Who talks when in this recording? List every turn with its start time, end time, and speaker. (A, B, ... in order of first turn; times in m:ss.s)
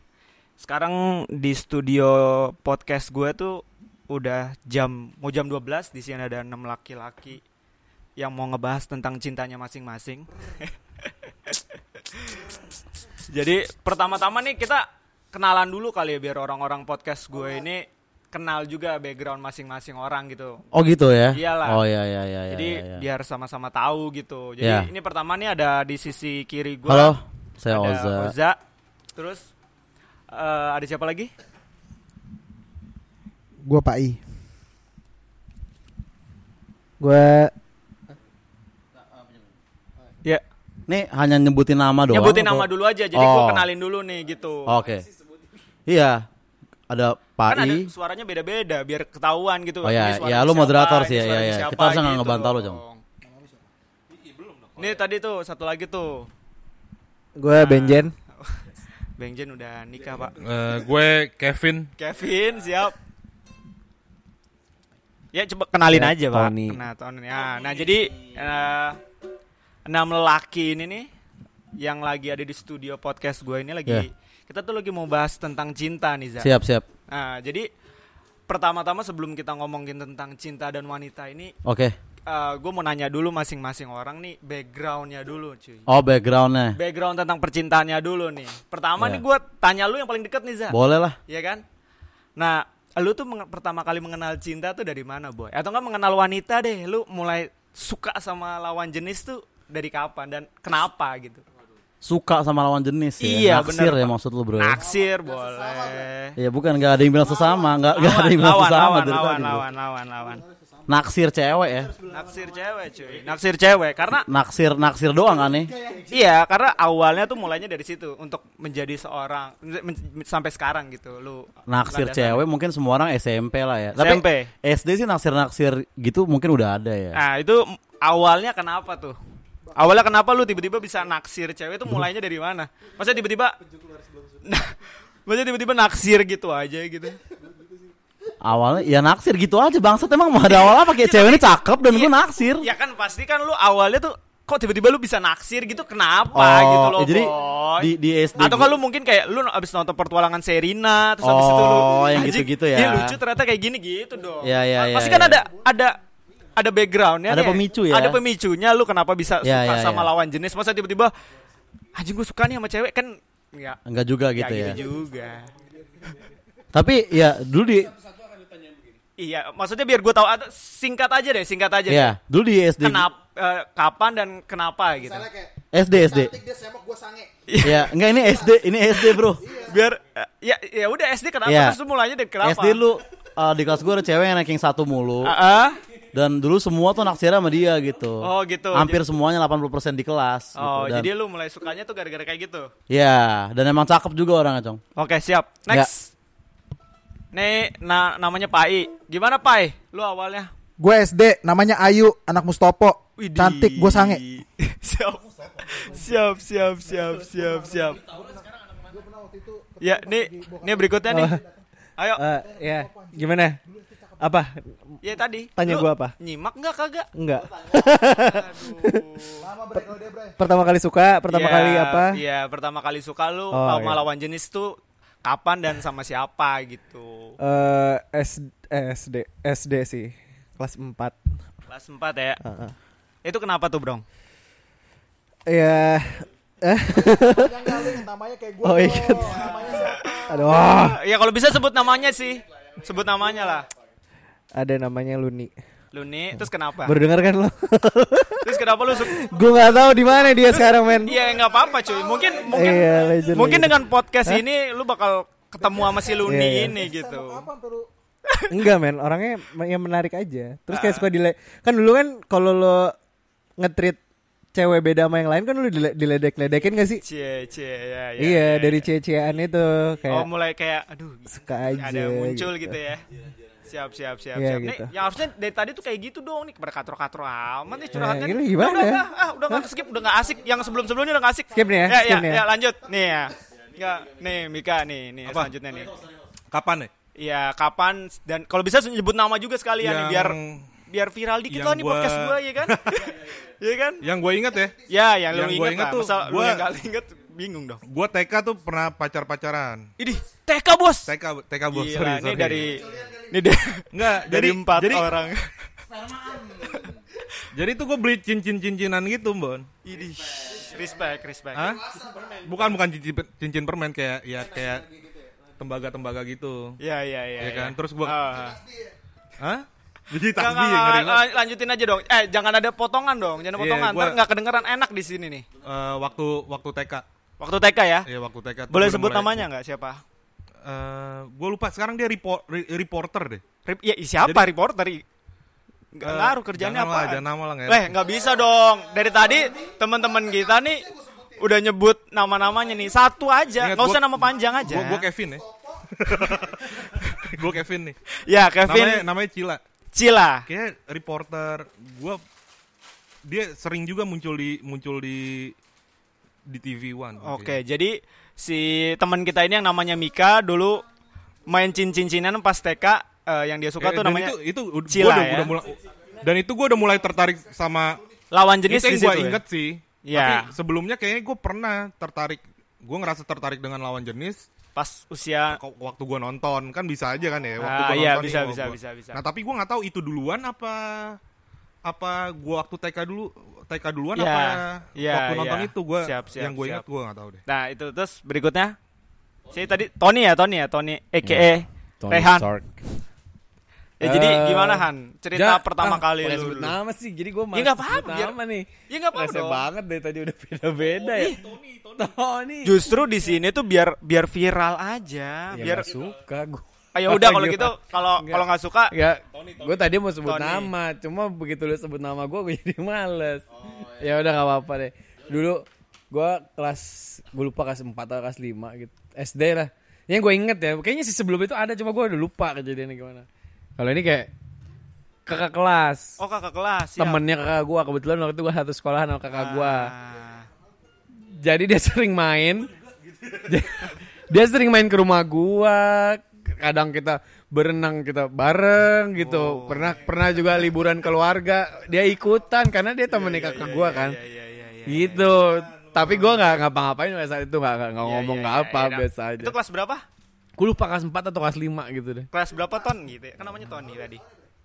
0:00.6-0:07.4 A
0:08.2-0:12.6 A
0:13.3-0:20.6 A
0:20.7-0:23.0 B
0:21.3-0:21.8 A
0:22.5-0:28.6 A
0:24.6-0:24.9 B
0:26.9-0:28.3 B
0:29.2-0:29.5 A
0:30.3-0:31.3 A
0:33.6-0:34.2 C
0:37.0-0:37.5 C
0:40.9-0:43.7 B
0:42.1-0:44.8 A
0:44.7-0:45.1 B
0:45.9-0:46.2 B
0:46.9-0:47.9 B
0:47.5-0:53.0 A
0:49.8-0:52.8 B
0:54.8-0:56.3 A
0:57.4-0:58.1 C
0:57.6-0:58.6 A
0:59.2-1:00.4 A
1:00.4-1:01.9 D
1:02.0-1:03.0 A
1:05.3-1:09.0 A
1:05.9-1:06.8 E
1:09.9-1:11.1 A
1:11.8-1:16.5 A
1:16.4-1:16.9 B
1:17.1-1:17.7 A
1:18.5-1:21.5 A
1:21.6-1:22.0 B
1:22.3-1:25.9 A
1:25.9-1:26.8 B
1:26.8-1:31.6 A
1:30.7-1:31.2 B
1:32.4-1:41.4 A
1:42.0-1:44.8 B
1:43.2-1:46.4 A
1:45.7-1:45.9 F
1:46.4-1:49.7 B
1:47.3-1:47.6 F
1:47.9-1:50.4 A
1:50.9-1:52.0 B
1:52.0-1:54.3 A
1:54.3-1:55.7 B
1:56.1-2:02.4 A
2:01.7-2:07.2 B
2:04.0-2:04.5 A
2:07.1-2:09.2 A
2:09.7-2:13.6 A
2:14.4-2:17.2 A
2:18.4-2:22.7 B
2:20.4-2:36.0 A
2:26.4-2:28.8 B
2:31.2-2:33.2 B
2:34.4-2:35.4 B
2:36.6-2:41.1 A
2:37.3-2:38.2 B
2:39.4-2:40.1 B
2:41.9-2:43.8 A
2:43.9-2:44.8 B
2:44.3-2:45.5 A
2:46.7-2:48.0 B
2:48.3-2:48.7 E
2:49.2-2:52.1 A
2:51.9-2:53.1 B
2:52.8-2:55.3 A
2:55.2-2:57.3 F
2:55.7-2:56.4 B
2:57.5-2:57.9 A
2:57.6-2:59.4 B
2:59.2-3:02.8 A
2:59.4-2:59.7 F
3:01.5-3:01.8 B
3:02.4-3:05.4 B
3:05.2-3:05.8 A
3:06.1-3:11.1 B
3:08.2-3:09.0 A
3:10.6-3:12.7 A
3:12.9-3:14.8 B
3:15.0-3:16.1 A
3:17.3-3:20.5 A
3:20.8-3:24.2 F
3:23.2-3:28.0 A
3:28.9-3:31.0 F
3:29.8-3:31.4 A
3:31.1-3:31.4 C
3:32.0-3:32.2 A
3:32.2-3:33.6 C
3:32.8-3:34.2 F
3:34.2-3:34.8 C
3:35.0-3:37.1 A
3:35.6-3:36.1 C
3:37.2-3:39.0 C
3:38.1-3:39.5 A
3:39.5-3:40.3 F
3:39.8-3:42.2 C
3:41.3-3:47.4 A
3:43.5-3:44.0 C
3:47.4-3:51.2 C
3:51.7-3:52.4 A
3:52.4-3:52.8 C
3:53.2-3:54.0 A
3:55.5-3:58.0 C
3:57.4-4:00.2 F
3:58.6-3:59.6 C
3:59.4-4:03.7 A
4:00.3-4:01.0 C
4:04.6-4:05.5 C
4:05.9-4:07.0 A
4:06.8-4:11.2 C
4:08.4-4:09.2 A
4:11.0-4:17.5 A
4:11.9-4:13.2 F
4:12.5-4:14.4 C
4:16.2-4:16.8 C
4:16.8-4:17.9 F
4:18.5-4:23.0 C
4:20.7-4:21.1 A
4:23.6-4:24.0 C
4:24.5-4:27.0 C
4:27.0-4:28.9 A
4:28.2-4:30.3 C
4:30.1-4:33.0 A
4:31.3-4:32.8 C
4:33.6-4:46.0 A
4:34.3-4:34.9 C
4:37.9-4:39.7 C
4:41.5-4:42.5 C
4:45.3-4:45.6 D
4:46.5-4:46.9 D
4:47.2-4:50.4 A
4:49.8-4:50.7 D
4:50.9-4:54.1 A
4:51.5-4:53.1 D
4:54.0-4:54.8 D
4:54.8-4:57.8 A
4:55.3-4:56.7 D
4:57.9-4:59.9 D
5:00.0-5:01.1 A
5:01.1-5:02.8 D
5:01.7-5:05.5 A
5:02.8-5:03.1 F
5:03.9-5:05.1 D
5:06.4-5:06.9 A
5:07.5-5:09.7 D
5:09.8-5:11.8 A
5:11.5-5:14.9 D
5:11.8-5:12.4 F
5:15.6-5:16.7 D
5:16.8-5:18.6 A
5:17.4-5:18.2 D
5:18.6-5:18.9 F
5:19.4-5:21.2 D
5:20.4-5:25.5 A
5:23.5-5:24.2 D
5:25.6-5:27.0 D
5:27.4-5:28.1 A
5:28.1-5:29.5 D
5:28.7-5:30.0 A
5:30.6-5:33.4 D
5:33.6-5:35.0 A
5:34.2-5:34.5 D
5:36.0-5:45.1 A
5:36.0-5:38.0 D
5:39.4-5:39.7 F
5:40.8-5:41.3 F
5:43.6-5:48.0 D
5:45.4-5:45.8 F
5:46.8-5:47.3 A
5:48.2-5:49.1 A
5:48.6-5:49.6 D
5:49.9-5:50.5 A
5:50.5-5:52.2 D
5:53.2-5:55.6 D
5:56.5-5:57.6 D
5:57.2-6:00.8 A
6:01.5-6:04.4 A
6:03.8-6:08.0 D
6:04.9-6:05.6 A
6:08.3-6:09.4 A
6:08.7-6:14.4 D
6:10.0-6:10.5 A
6:14.8-6:15.6 A
6:15.5-6:21.2 D
6:17.6-6:19.2 A
6:21.8-6:27.4 D
6:24.2-6:26.8 A
6:27.5-6:28.8 A
6:29.5-6:32.5 A
6:32.0-6:32.8 E
6:34.0-6:36.8 A
6:34.0-6:42.8 E
6:37.5-6:38.4 A
6:38.9-6:39.6 A
6:41.1-6:41.4 A
6:41.3-6:41.8 D
6:42.6-6:45.9 A
6:45.5-7:04.3 E
6:46.9-6:49.0 A
6:50.2-6:50.7 A
7:05.3-7:06.2 E
7:06.2-7:07.2 A
7:07.0-7:09.9 E
7:09.3-7:10.5 A
7:11.2-7:12.7 E
7:13.3-7:24.2 E
7:19.2-7:20.5 A
7:23.1-7:25.3 A
7:24.9-7:29.5 E
7:25.9-7:26.4 D
7:28.0-7:30.0 A
7:30.6-7:32.3 E
7:32.3-7:34.2 A